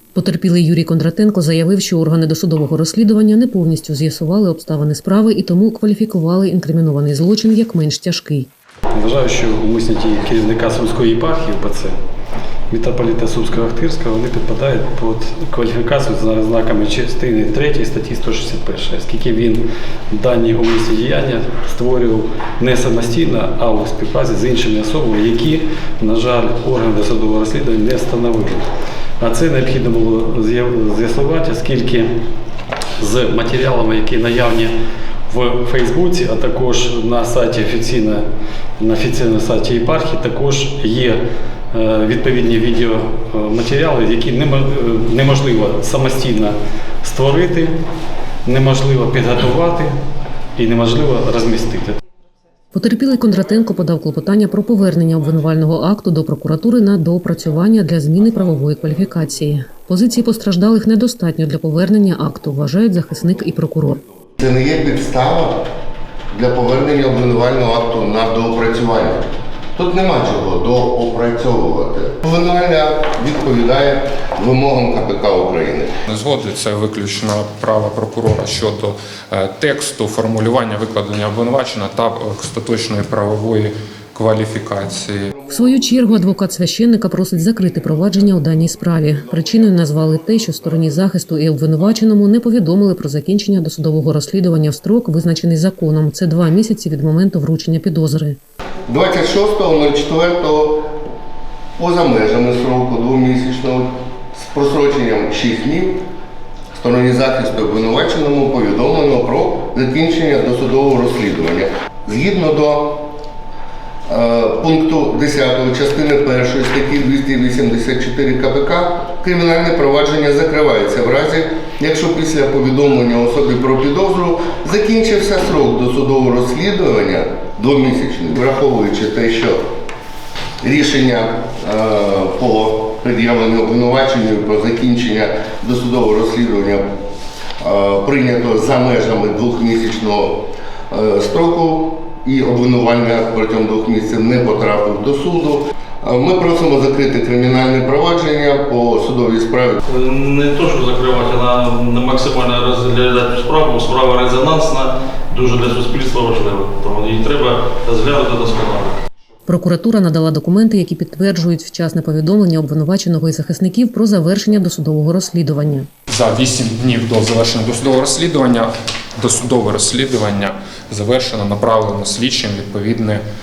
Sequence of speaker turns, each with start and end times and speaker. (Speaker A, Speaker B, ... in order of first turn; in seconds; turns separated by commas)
Speaker A: 0.1-8.5, Speaker B: 8.9-11.9, Speaker B: 12.7-28.6, Speaker B: 29.2-32.1, Speaker B: 33.0-34.7, Speaker B: 35.3-38.2, Speaker B: 38.8-41.2, Speaker B: 41.7-47.8, Speaker B: 48.4-50.0, Speaker B: 50.5-52.0, Speaker A: 52.7-64.0, Speaker C: 64.4-65.7, Speaker C: 66.3-75.9, Speaker D: 76.1-85.3, Speaker C: 85.4-86.0, Speaker A: 85.5-98.4, Speaker C: 98.9-100.9, Speaker C: 101.8-106.0, Speaker C: 106.7-113.1, Speaker C: 114.1-129.6, Speaker C: 130.6-136.8, Speaker C: 137.6-149.8, Speaker E: 149.9-159.0, Speaker A: 159.4-165.9, Speaker D: 166.1-173.2